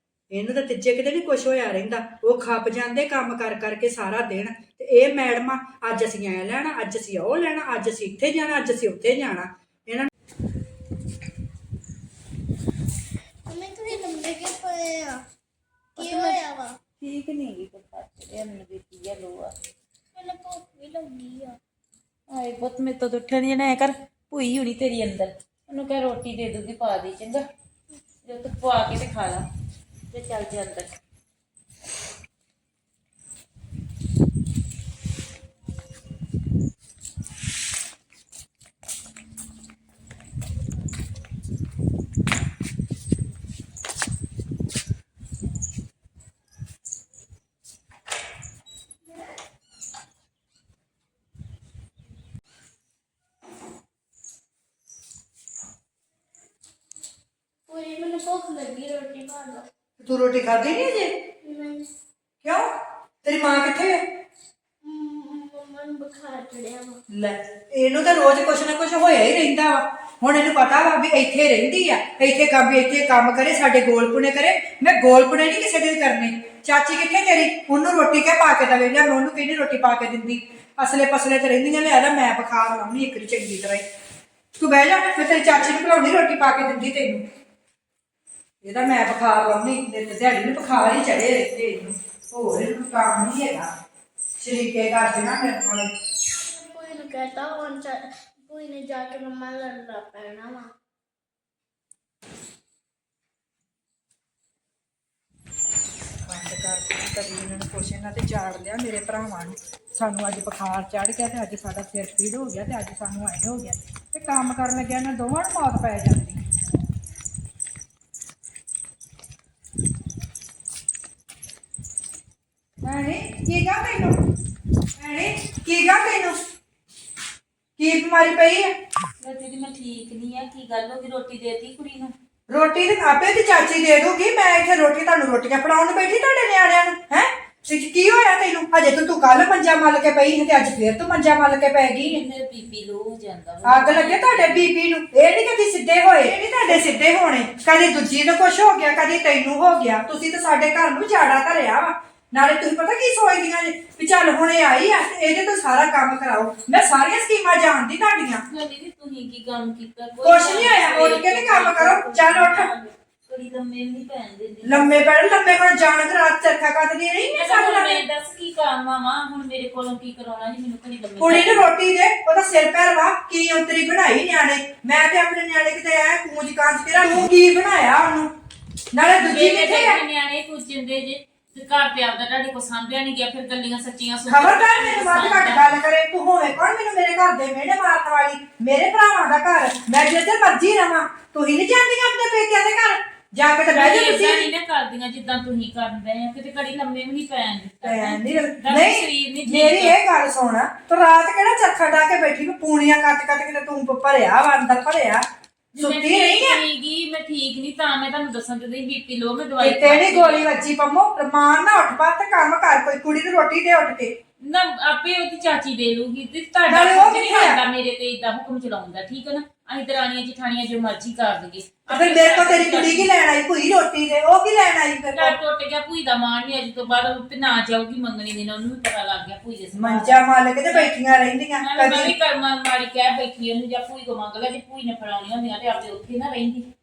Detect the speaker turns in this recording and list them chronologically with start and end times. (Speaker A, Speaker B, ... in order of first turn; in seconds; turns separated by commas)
Speaker A: 0.3-10.1, Speaker B: 13.4-15.2, Speaker B: 16.0-16.8, Speaker C: 16.0-16.4, Speaker C: 17.0-19.5, Speaker B: 20.1-21.4, Speaker C: 22.3-27.4, Speaker C: 28.2-29.5, Speaker C: 30.1-30.9, Speaker B: 57.7-59.7, Speaker A: 60.0-61.1, Speaker B: 61.4-61.9, Speaker A: 62.4-62.7, Speaker A: 63.2-64.0, Speaker B: 64.8-67.0, Speaker A: 67.1-83.8, Speaker A: 84.5-87.2, Speaker A: 88.6-93.7, Speaker A: 94.4-95.9, Speaker B: 96.4-100.7, Speaker A: 106.2-116.4, Speaker A: 122.8-124.2, Speaker A: 125.0-126.4, Speaker A: 127.8-128.7, Speaker C: 129.2-132.1, Speaker A: 132.5-142.2, Speaker C: 142.0-144.7, Speaker A: 143.6-158.4, Speaker C: 158.5-165.1, Speaker A: 160.2-162.7, Speaker A: 164.6-168.0, Speaker C: 167.2-171.7, Speaker A: 171.2-178.3, Speaker A: 178.9-180.0, Speaker C: 179.2-185.8, Speaker A: 184.3-194.5, Speaker C: 193.7-199.9, Speaker A: 197.8-205.2, Speaker C: 205.7-210.5, Speaker A: 205.8-206.6, Speaker A: 209.6-214.1, Speaker C: 214.4-223.1, Speaker A: 216.7-217.6, Speaker A: 221.9-225.3, Speaker C: 225.1-230.9, Speaker A: 229.7-232.1, Speaker C: 231.6-236.7